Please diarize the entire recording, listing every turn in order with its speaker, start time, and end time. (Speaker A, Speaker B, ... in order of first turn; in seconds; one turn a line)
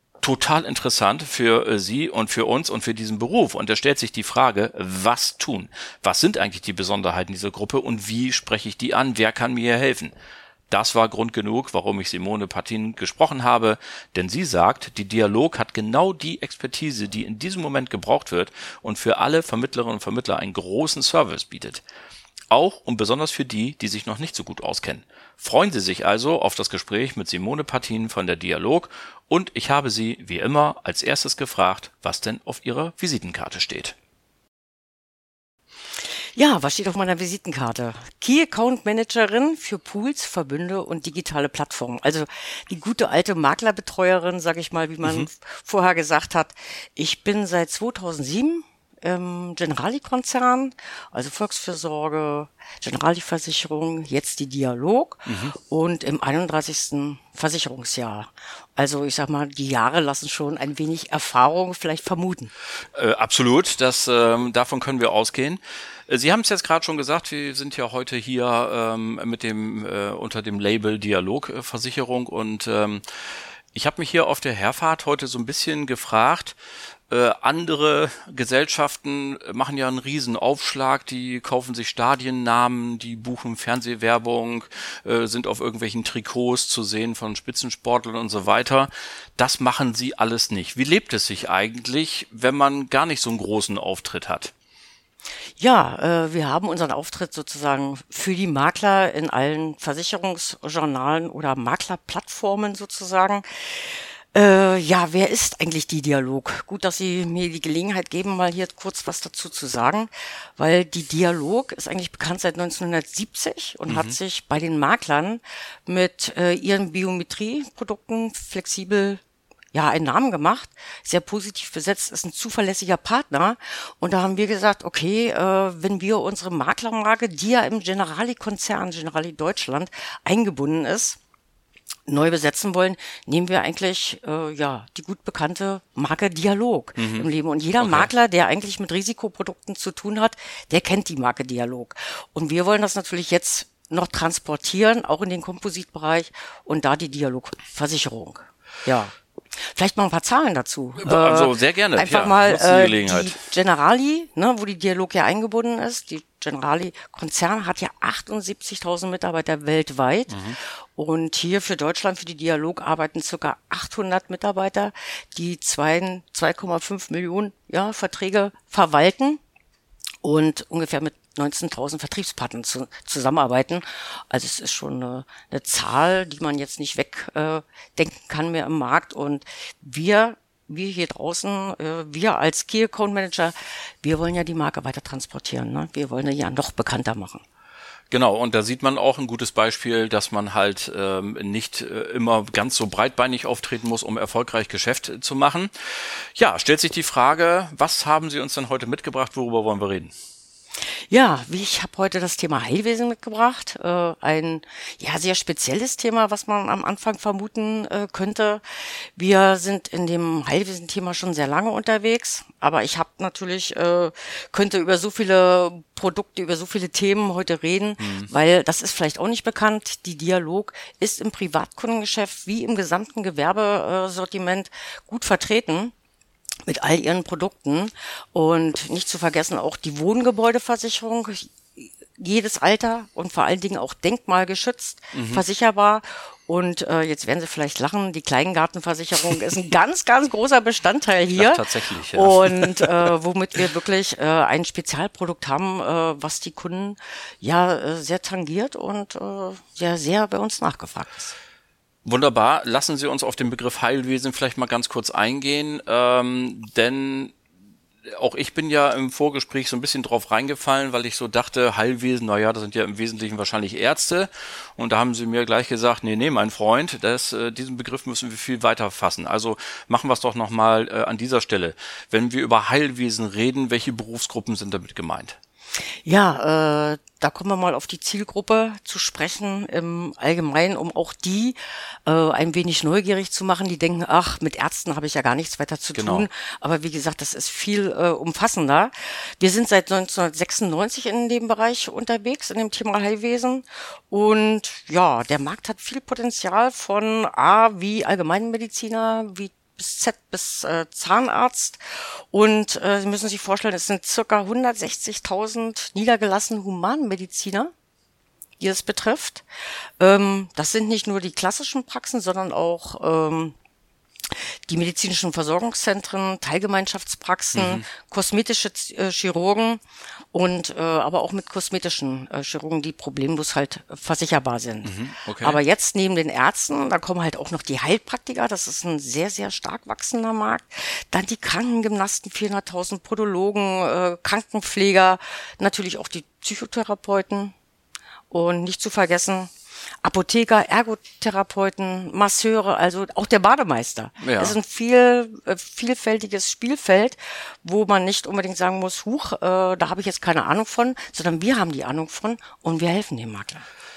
Speaker A: 0.2-10.1
Speaker A: 10.7-21.8
Speaker A: 22.5-34.0
Speaker B: 36.3-62.5
Speaker A: 45.0-45.3
Speaker A: 55.3-55.5
Speaker A: 62.9-73.0
Speaker A: 73.7-76.6
Speaker A: 77.1-94.5
Speaker B: 95.6-119.2
Speaker A: 113.9-114.2
Speaker B: 119.7-131.2
Speaker B: 132.1-169.4
Speaker A: 137.0-138.1
Speaker A: 151.0-153.4
Speaker A: 160.3-160.6
Speaker B: 170.2-187.4
Speaker A: 188.1-200.1
Speaker B: 201.1-225.9
Speaker A: 218.0-218.3
Speaker B: 226.7-251.3
Speaker A: 235.1-235.4
Speaker A: 241.3-243.1
Speaker A: 252.0-257.4
Speaker A: 258.1-275.4
Speaker B: 276.0-307.7
Speaker A: 285.9-286.3
Speaker B: 308.6-309.4
Speaker B: 310.0-313.5
Speaker B: 314.3-337.5
Speaker A: 317.5-317.9
Speaker A: 324.8-325.6
Speaker B: 338.3-353.6
Speaker A: 344.2-344.6